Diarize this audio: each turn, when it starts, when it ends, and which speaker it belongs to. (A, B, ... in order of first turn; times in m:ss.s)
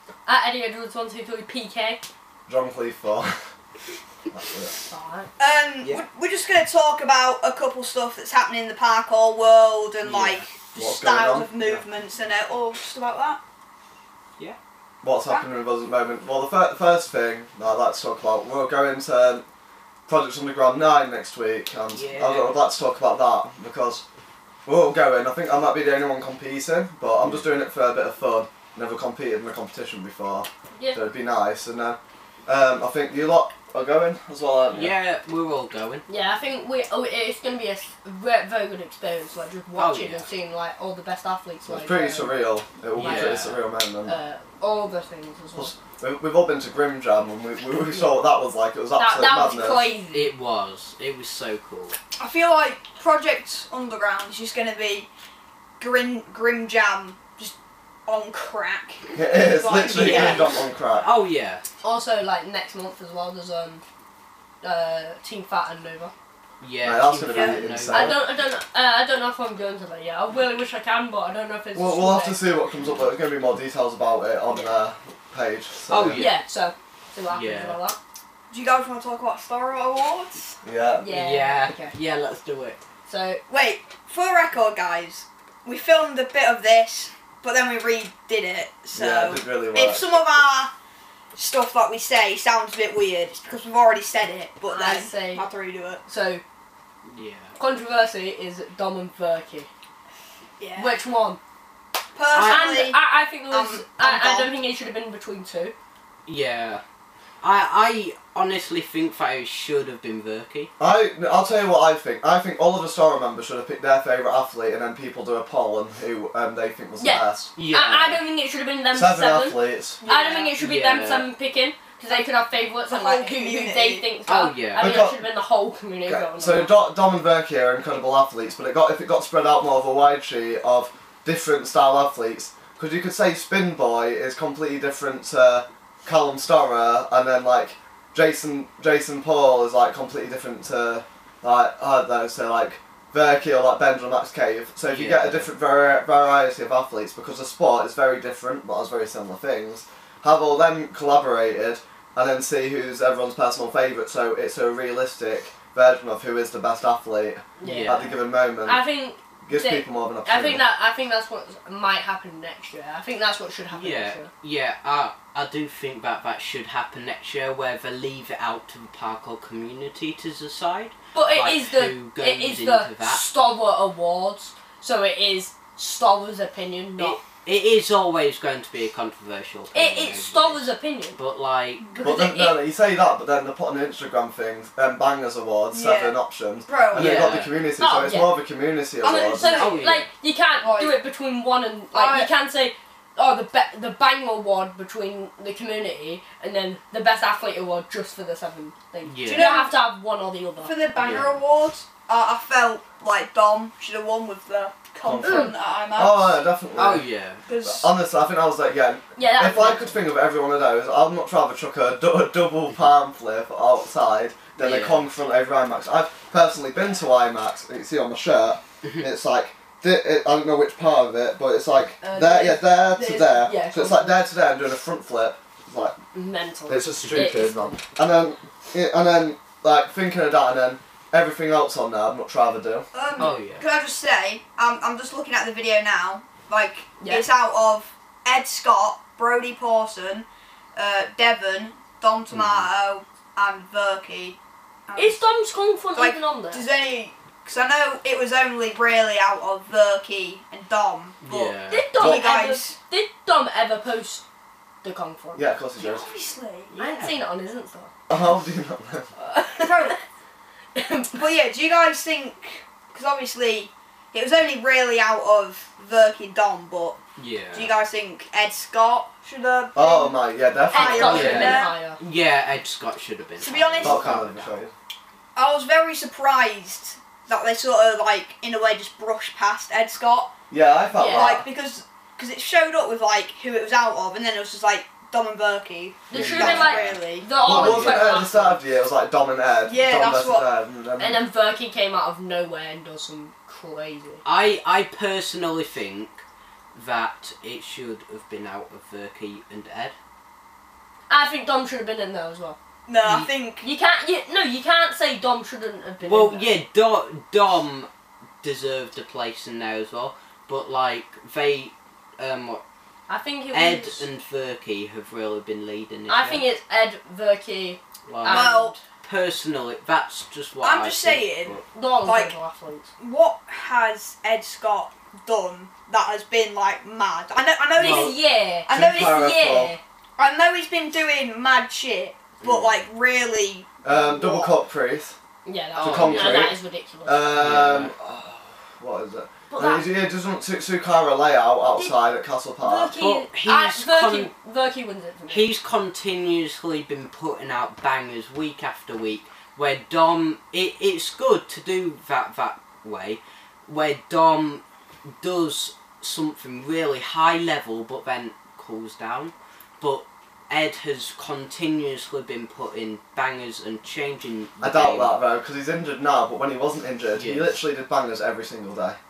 0:00.2-0:02.0 A
0:02.5-0:03.4 B
0:04.3-0:04.7 B
0:04.8-0:05.3 A
0:05.4-0:13.4 C
0:10.0-0:10.4 D
0:10.8-0:11.8 B
0:15.0-0:19.4 B
0:20.1-0:24.0 B
0:21.9-0:22.6 D
0:24.6-0:34.9 B
0:27.2-0:27.4 D
0:30.7-0:31.0 A
0:34.7-0:36.0 D
0:36.1-0:42.4 A
0:39.7-0:40.3 D
0:41.6-0:44.2 B
0:42.9-0:43.6 D
0:43.0-0:43.5 A
0:44.0-0:45.7 A
0:45.5-0:49.9 B
0:49.0-0:50.3 A
0:50.1-0:52.0 D
0:52.2-0:55.1 C
0:55.8-1:00.6 C
0:59.1-1:01.1 B
0:59.8-1:01.6 D
1:00.0-1:00.4 A
1:01.8-1:03.8 A
1:04.6-1:06.1 A
1:06.6-1:08.2 D
1:06.8-1:08.2 B
1:07.3-1:07.6 C
1:07.9-1:12.5 A
1:11.7-1:16.2 B
1:12.8-1:13.1 D
1:14.5-1:14.8 A
1:15.9-1:16.4 D
1:16.1-1:18.0 A
1:17.3-1:17.8 D
1:18.5-1:20.6 C
1:20.6-1:21.1 B
1:21.0-1:21.9 A
1:21.1-1:22.8 D
1:23.1-1:23.4 A
1:23.5-1:30.7 C
1:28.9-1:30.1 B
1:31.4-1:36.0 C
1:34.7-1:35.5 A
1:36.0-1:36.4 A
1:37.0-1:37.6 D
1:37.6-1:39.7 A
1:40.6-1:41.0 C
1:40.8-1:41.4 A
1:42.1-1:44.5 C
1:42.3-1:42.7 D
1:42.4-1:45.7 A
1:46.2-1:46.8 D
1:47.4-1:50.7 D
1:50.8-1:57.5 B
1:57.0-2:06.8 A
1:57.6-1:58.2 D
1:58.9-2:00.0 B
2:00.0-2:00.6 C
2:00.6-2:01.3 D
2:02.8-2:04.1 C
2:04.3-2:04.9 D
2:04.8-2:05.2 B
2:06.1-2:38.8 B
2:24.9-2:25.5 D
2:37.6-2:44.3 A
2:37.6-2:38.1 D
2:39.4-2:40.6 B
2:43.7-2:53.3 D
2:51.1-2:57.2 A
2:57.0-3:01.9 D
2:59.7-3:01.2 A
3:01.9-3:02.6 A
3:02.0-3:09.7 B
3:05.7-3:07.3 C
3:06.9-3:07.6 D
3:07.8-3:08.3 A
3:09.0-3:09.6 C
3:09.0-3:20.8 A
3:09.4-3:10.1 D
3:10.6-3:11.0 C
3:11.9-3:12.3 C
3:19.0-3:19.7 D
3:19.2-3:19.8 C
3:20.6-3:26.5 C
3:21.0-3:21.4 D
3:25.0-3:27.1 B
3:25.2-3:25.5 A
3:26.8-3:27.4 D
3:27.5-3:27.9 C
3:27.6-3:46.0 B
3:29.2-3:30.0 A
3:34.6-3:35.1 D
3:42.0-3:44.2 A
3:46.1-3:47.8 A
3:46.7-3:52.9 B
3:52.9-4:05.2 C
3:53.2-3:53.6 D
3:57.0-3:57.2 A
4:02.3-4:02.7 D
4:05.0-4:06.6 A
4:05.9-4:12.8 C
4:11.2-4:11.9 D
4:11.7-4:14.2 A
4:12.0-4:12.2 B
4:14.8-4:15.5 A
4:15.3-4:16.1 B
4:15.8-4:16.7 C
4:16.7-4:17.2 D
4:16.8-4:17.9 A
4:18.1-4:19.1 B
4:19.2-4:20.0 A
4:19.6-4:20.0 C
4:20.7-4:21.2 A
4:21.1-4:27.0 C
4:27.2-4:27.7 D
4:27.5-4:31.7 C
4:29.7-4:31.6 B
4:30.7-4:32.0 A
4:31.0-4:34.6 D
4:33.4-4:34.2 C
4:33.8-4:34.7 B
4:35.3-4:40.3 C
4:40.5-4:41.4 B
4:40.9-4:41.4 A
4:41.1-4:47.3 C
4:46.1-4:48.6 A
4:46.1-4:51.2 B
4:46.1-4:48.2 D
4:49.6-4:50.5 C
4:51.0-4:54.2 A
4:54.2-4:59.9 D
5:01.1-5:02.6 A
5:02.9-5:03.7 C
5:03.6-5:06.5 A
5:06.0-5:07.9 D
5:08.4-5:12.6 D
5:13.1-5:14.0 A
5:13.5-5:16.4 D
5:16.1-5:18.8 A
5:18.1-5:18.5 D
5:18.2-5:18.8 C
5:19.0-5:21.6 D
5:20.6-5:22.3 C
5:21.7-5:22.9 A
5:23.0-5:29.2 C
5:27.8-5:28.1 D
5:27.8-5:29.8 A
5:28.7-5:29.7 B
5:30.2-5:34.6 C
5:32.4-5:32.8 D
5:33.8-5:35.2 B
5:35.4-5:37.6 A
5:35.7-5:43.0 B
5:35.8-5:36.5 D
5:37.3-5:37.9 D
5:39.5-5:39.9 A
5:42.6-5:45.5 A
5:43.0-5:44.3 D
5:45.3-6:05.2 D
6:04.6-6:09.0 B
6:07.1-6:07.6 D